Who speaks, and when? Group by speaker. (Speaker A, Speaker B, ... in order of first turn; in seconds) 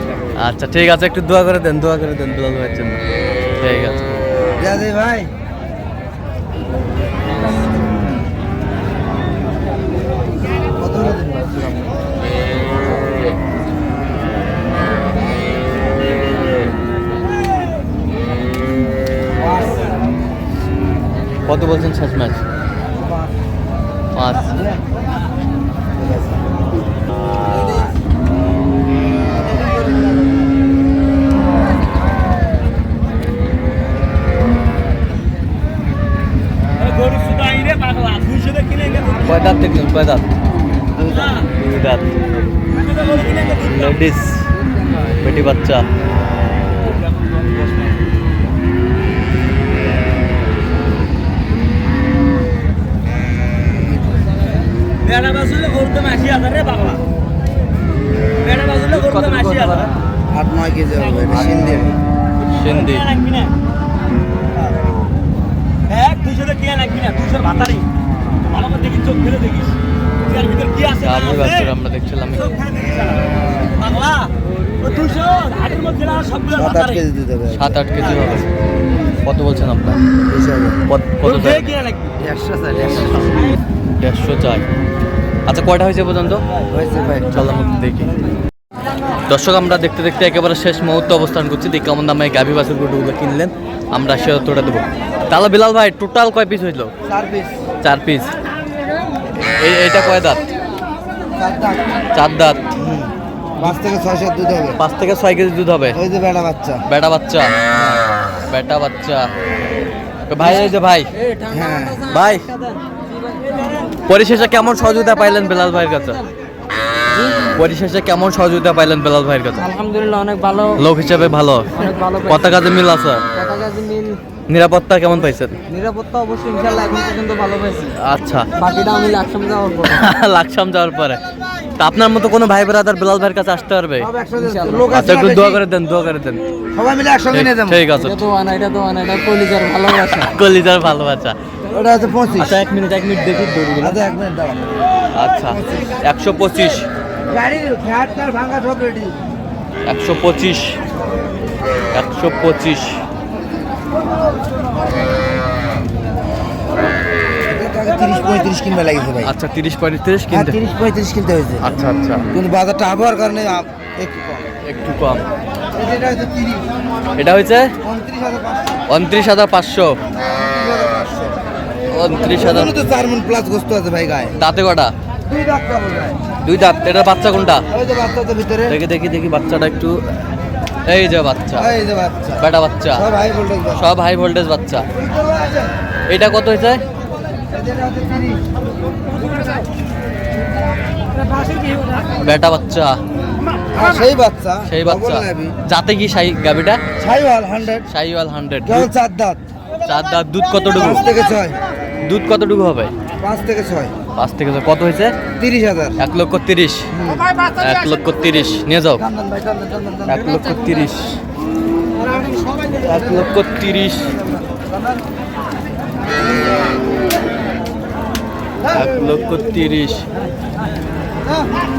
Speaker A: 0.4-3.0, 3.6-4.0, 21.5-22.4, 24.1-24.6, 39.2-40.2, 41.4-42.1, 43.5-44.5, 45.1-45.9, 58.9-59.9, 62.4-63.1, 71.0-72.6, 77.5-78.5, 79.2-80.0, 80.9-81.8, 84.0-84.7, 85.5-86.4, 87.3-88.2, 89.2-96.9, 97.8-98.3, 99.5-100.4, 102.1-102.6, 104.8-106.0, 106.9-107.5, 108.5-109.3, 110.3-111.1, 112.1-112.5, 114.1-116.2, 117.5-119.7, 120.8-123.2, 124.5-125.6, 128.0-128.5, 129.9-131.2, 131.8-134.1, 134.9-136.4, 137.3-138.2, 140.2-141.3, 142.4-144.0, 145.1-146.9, 149.8-150.8, 151.9-153.0, 159.2-160.6, 161.6-162.3, 164.7-165.3, 167.2-167.7, 168.9-169.9, 171.9-172.7, 174.4-174.9, 176.4-177.6, 178.7-180.0, 180.9-181.7, 182.4-183.0, 183.7-184.9, 186.1-186.8, 192.2-193.0, 194.7-196.8, 197.9-198.9, 199.8-201.1, 202.0-202.9, 204.2-205.1, 206.0-206.9, 207.6-209.0, 210.1-211.2, 212.8-214.1, 218.7-220.0
Speaker B: 4.6-5.3, 10.8-11.8, 19.5-19.9, 23.0-23.3, 24.4-24.8, 25.9-26.4, 60.3-61.9, 76.5-77.8, 80.2-80.8, 82.2-83.5, 86.7-87.5, 97.0-97.6, 101.3-102.0, 102.7-104.8, 105.9-106.8, 107.7-108.0, 110.4-110.8, 111.5-112.0, 134.0-135.6, 136.7-137.8, 141.7-142.6, 143.8-144.7, 145.4-146.0, 147.3-149.2, 157.5-159.3, 160.3-161.8, 162.3-164.5, 165.7-166.7, 167.8-168.8, 170.3-171.4, 172.1-174.4, 175.2-176.2, 177.7-178.8, 181.5-183.9, 184.9-185.7, 187.5-188.4, 193.7-195.5, 197.0-197.9, 198.6-199.4, 200.7-201.6, 203.2-203.9, 205.4-206.0, 206.9-207.3, 209.0-210.4, 212.8-213.3, 214.1-215.0
Speaker C: 36.8-39.3, 41.0-41.5, 42.7-44.0, 47.2-47.7, 55.0-57.0, 58.4-59.9, 62.6-63.5, 65.9-67.9, 68.4-71.7, 72.6-76.9, 81.2-82.2
Speaker D: 111.2-113.9, 117.1-117.5, 119.6-120.8, 121.7-122.6, 123.3-124.2, 125.7-127.9, 128.6-130.1, 134.3-134.9, 137.9-140.3